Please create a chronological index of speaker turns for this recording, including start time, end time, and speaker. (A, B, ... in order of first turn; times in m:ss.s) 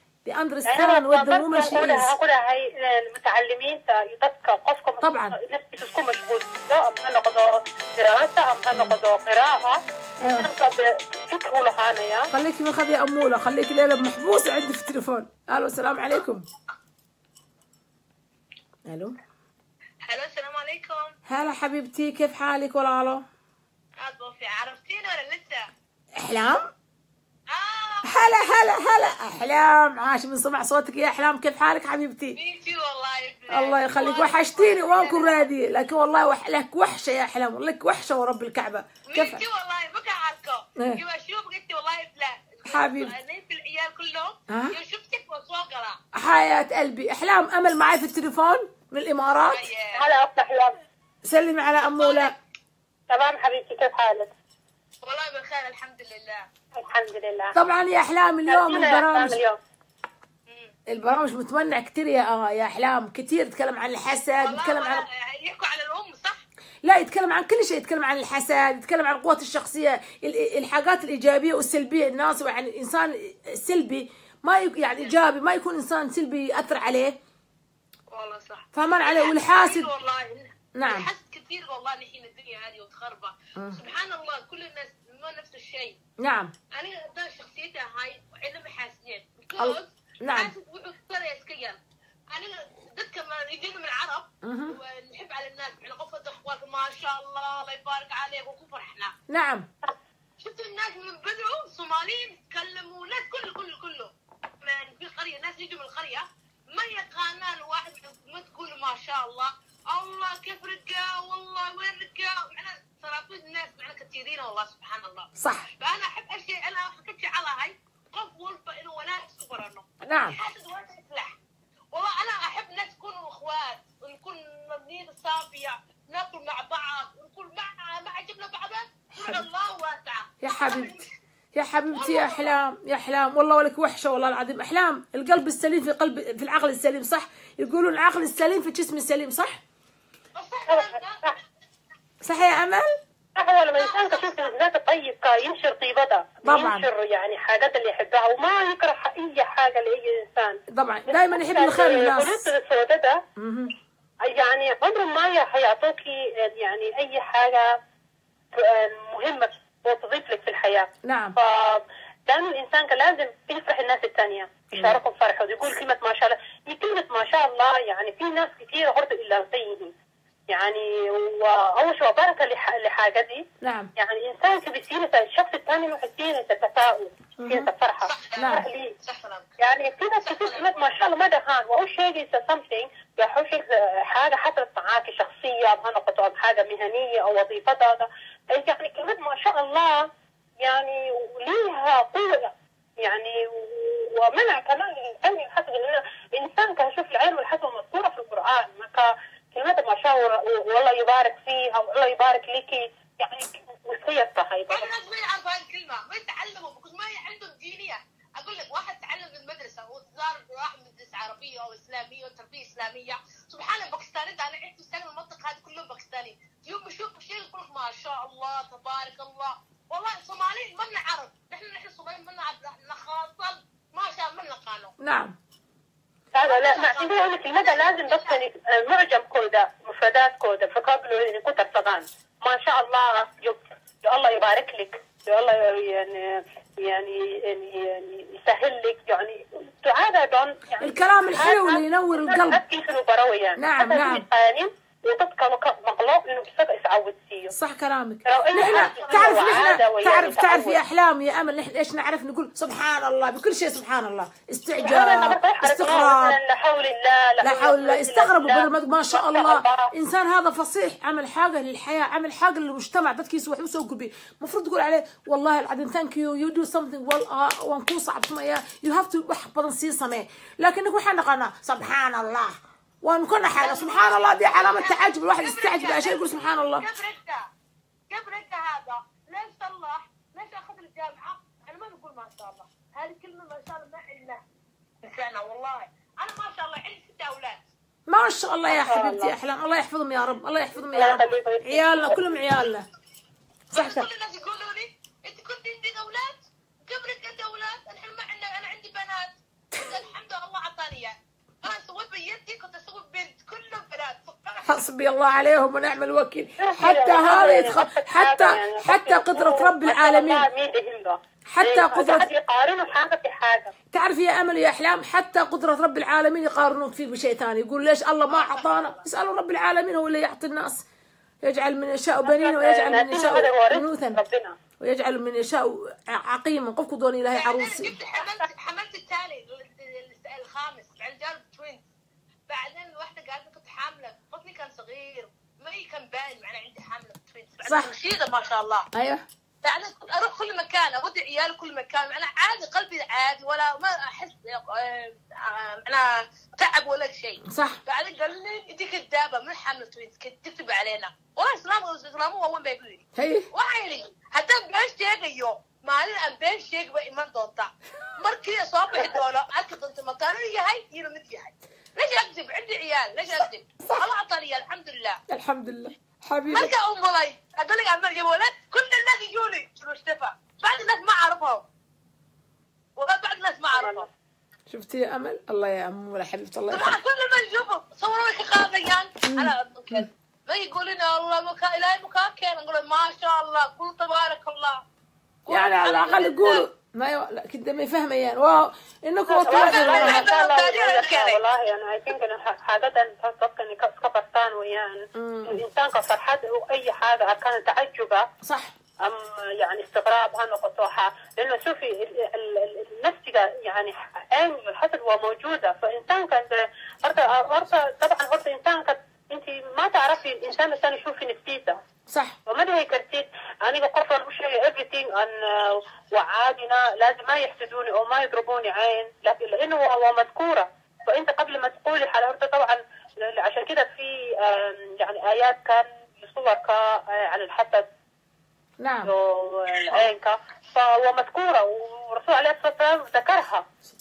0:00.3-0:02.1 A
0:00.7-0:12.3 B
0:05.0-0:05.4 A
0:08.7-0:09.0 A
0:10.2-0:10.5 A
0:12.3-0:16.5 A
0:18.9-0:19.2 A
0:20.1-0:21.1 C
0:21.3-0:23.2 A
0:24.0-0:25.6 C
0:26.2-0:26.7 A
0:27.5-0:28.4 C
0:28.0-0:32.4 A
0:32.4-0:35.4 C
0:33.5-0:39.4 A
0:39.1-0:46.0 C
0:40.8-0:41.0 A
0:42.6-0:43.1 A
0:44.5-0:44.8 A
0:46.2-0:49.7 A
0:49.5-0:50.0 C
0:50.0-0:50.8 B
0:51.2-0:52.3 A
0:52.0-0:52.3 C
0:53.1-0:54.3 B
0:55.0-0:56.5 C
0:56.8-0:57.6 B
0:57.5-0:59.4 A
0:58.5-0:59.6 B
1:00.9-1:05.0 A
1:04.4-1:06.4 C
1:06.8-1:17.2 A
1:18.1-1:26.0 C
1:18.7-1:19.9 A
1:20.8-1:21.1 A
1:23.6-1:23.8 A
1:26.2-1:26.5 A
1:26.7-1:31.8 C
1:29.6-1:30.5 A
1:32.3-1:39.1 C
1:34.4-1:34.8 A
1:39.3-1:39.7 A
1:40.4-1:44.1 C
1:44.6-2:01.3 C
1:55.4-1:55.7 A
2:00.0-2:00.4 A
2:01.9-2:11.1 C
2:09.2-2:09.5 A
2:10.4-2:11.0 A
2:11.6-2:19.6 A
2:11.9-2:12.5 C
2:20.4-2:21.2 C
2:20.7-2:21.4 B
2:22.2-2:22.9 A
2:23.4-2:33.2 B
2:23.8-2:24.4 C
2:26.4-2:26.9 A
2:30.7-2:32.5 A
2:33.4-2:33.8 A
2:34.2-2:37.8 B
2:38.6-2:49.9 B
2:41.0-2:41.4 A
2:44.7-2:45.0 A
2:50.5-2:53.5 B
2:53.6-2:53.9 A
2:54.0-2:59.0 B
2:57.4-2:57.7 A
2:58.4-2:58.7 A
2:59.6-3:10.1 B
3:10.6-3:24.9 B
3:24.7-3:44.9 C
3:45.0-3:45.4 A
3:46.3-4:07.5 B
3:46.5-3:48.4 C
4:00.8-4:02.6 A
4:03.6-4:04.2 A
4:07.5-4:16.4 A
4:08.3-4:10.8 B
4:08.9-4:09.3 C
4:14.8-4:19.9 B
4:17.4-4:36.9 A
4:33.6-4:37.5 C
4:38.1-4:44.4 C
4:45.0-4:47.6 C
4:48.1-4:52.9 A
4:48.8-4:49.3 B
4:51.0-4:52.2 B
4:53.7-4:54.1 A
4:53.7-5:04.8 C
5:04.6-5:10.5 A
5:06.6-5:13.7 B
5:11.5-5:12.3 A
5:13.9-5:20.8 A
5:18.4-5:19.0 C
5:21.4-5:24.2 A
5:22.3-5:24.6 B
5:24.8-5:28.0 A
5:27.3-5:31.8 C
5:32.5-5:38.9 C
5:37.6-5:37.9 A
5:38.9-5:39.2 A
5:39.6-5:53.0 C
5:47.4-5:47.8 A
5:53.2-5:53.5 A
5:53.5-6:05.2 C
6:05.3-6:06.7 A
6:06.5-6:11.6 C
6:13.0-6:14.1 C
6:13.7-6:14.1 B
6:14.7-6:17.0 A
6:16.7-6:24.8 C
6:19.3-6:20.1 A
6:25.5-6:26.7 C
6:25.5-6:30.3 A
6:29.3-6:38.3 B
6:29.5-6:31.4 C
6:35.2-6:35.6 A
6:38.4-6:38.7 A
6:39.0-6:51.8 B
6:52.1-6:52.4 A
6:52.5-7:07.9 B
7:08.8-7:09.1 A
7:09.1-7:13.6 B